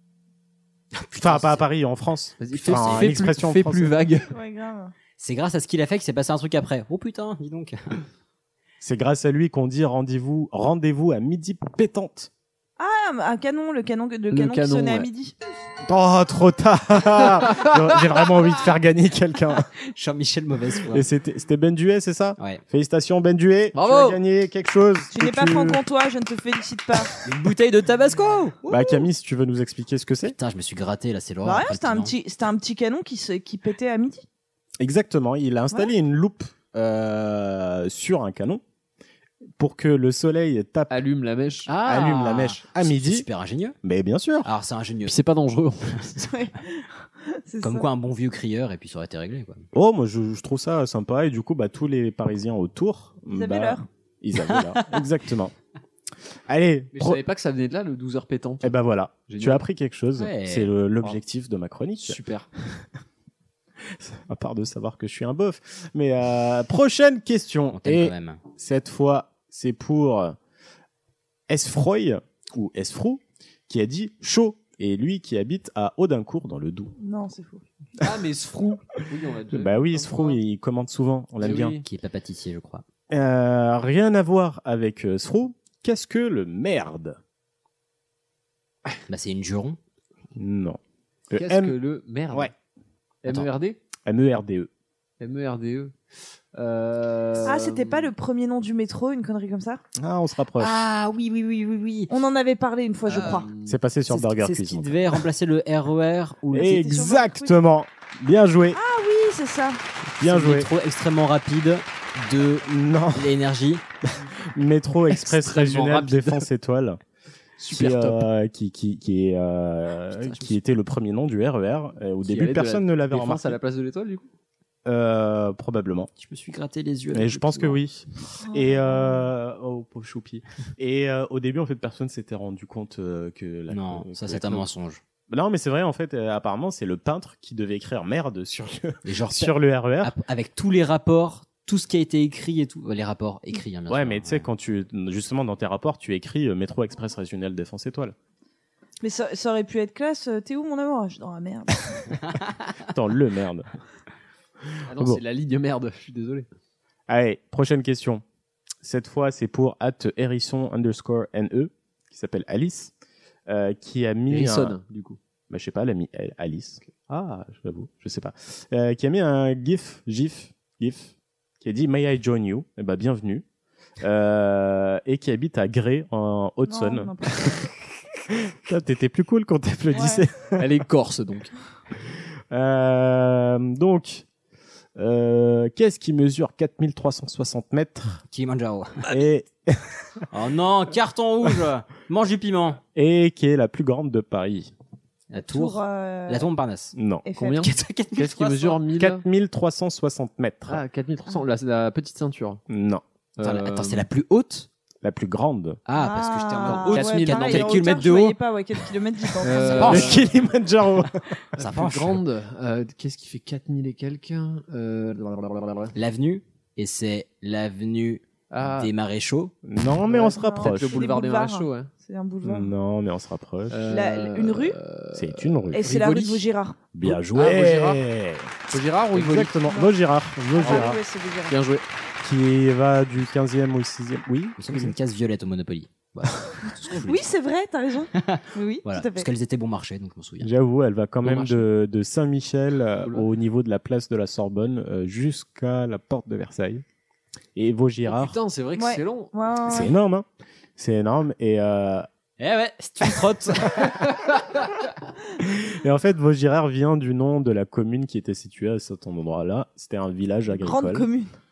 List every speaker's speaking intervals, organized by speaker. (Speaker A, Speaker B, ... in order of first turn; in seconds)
Speaker A: 0.9-1.6, 2.6-3.0, 5.2-8.0, 19.9-21.1, 22.4-22.6, 27.2-28.6, 30.2-32.1, 41.7-43.8, 44.4-45.2, 47.6-49.6, 54.5-55.0, 60.2-60.7, 67.7-68.4, 81.8-82.8, 89.1-89.8, 100.6-102.1, 103.1-103.5, 104.1-106.9, 110.2-113.8, 120.2-120.5, 126.2-127.8, 133.7-135.0, 139.0-144.5, 188.3-189.1, 190.3-192.8, 195.3-196.9, 197.6-198.8, 203.4-204.7, 205.8-208.4, 209.5-210.2, 211.6-212.2, 215.9-219.5, 234.6-237.3, 238.1-240.5, 252.4-254.0
Speaker B: 1.1-4.0, 8.8-12.3, 15.8-19.7, 20.9-25.8, 28.7-30.4, 34.8-38.6, 39.6-41.0, 41.8-43.3, 43.8-44.5, 49.7-55.5, 56.5-57.2, 58.6-62.2, 63.9-70.3, 71.5-76.9, 79.5-81.8, 83.1-87.2, 90.3-90.8, 91.3-91.8, 94.0-94.7, 100.0-100.8, 103.6-105.2, 106.5-108.8, 110.2-110.7, 112.6-113.3, 114.5-117.0, 117.7-123.6, 124.8-126.1, 127.1-134.7, 135.3-140.1, 143.9-148.1, 152.8-153.7, 154.9-155.2, 157.1-158.2, 158.8-162.9, 163.5-164.8, 165.5-173.4, 174.0-177.6, 178.6-180.7, 182.5-184.2, 185.0-188.2, 189.1-190.0, 192.9-194.7, 196.9-197.3, 198.9-200.8, 202.7-203.0, 205.0-205.8, 209.8-211.2, 219.6-221.1, 222.4-224.0, 225.1-225.9, 226.9-228.6, 229.1-231.0, 232.2-234.9, 240.4-246.8, 247.6-248.4, 249.7-252.1, 255.6-261.1
Speaker C: 2.4-4.3, 14.3-15.1, 17.4-17.7, 23.7-24.2, 40.9-42.0, 45.0-46.2, 56.9-58.7, 59.3-59.6, 62.0-62.5, 78.0-80.4, 81.4-81.8, 91.3-92.5, 93.2-93.8, 95.2-95.9, 96.5-98.1, 103.2-103.7, 115.1-116.4, 117.6-118.2, 122.2-124.2, 154.9-156.5, 164.3-165.2, 180.6-181.5, 197.4-199.2, 200.7-202.6, 203.4-204.1, 206.6-207.9, 209.4-210.3, 211.6-215.9, 218.5-218.9, 220.1-221.9, 223.7-226.5, 227.0-228.0, 228.7-229.7, 230.6-231.8, 241.2-241.6, 248.1-249.3
Speaker D: 4.3-4.9, 12.8-15.3, 25.1-27.2, 28.7-29.0, 31.4-34.2, 46.2-47.9, 53.3-53.9, 77.0-77.6, 97.4-99.8, 102.1-103.5, 106.5-107.5, 108.7-109.8, 128.4-129.3, 149.0-152.1, 176.7-177.7, 179.9-180.2, 195.4-196.5, 197.2-197.7, 205.9-210.2, 220.2-222.7, 223.9-224.8, 225.7-226.8, 229.7-229.9, 230.5-231.6, 237.0-239.3, 248.8-249.9, 260.5-261.3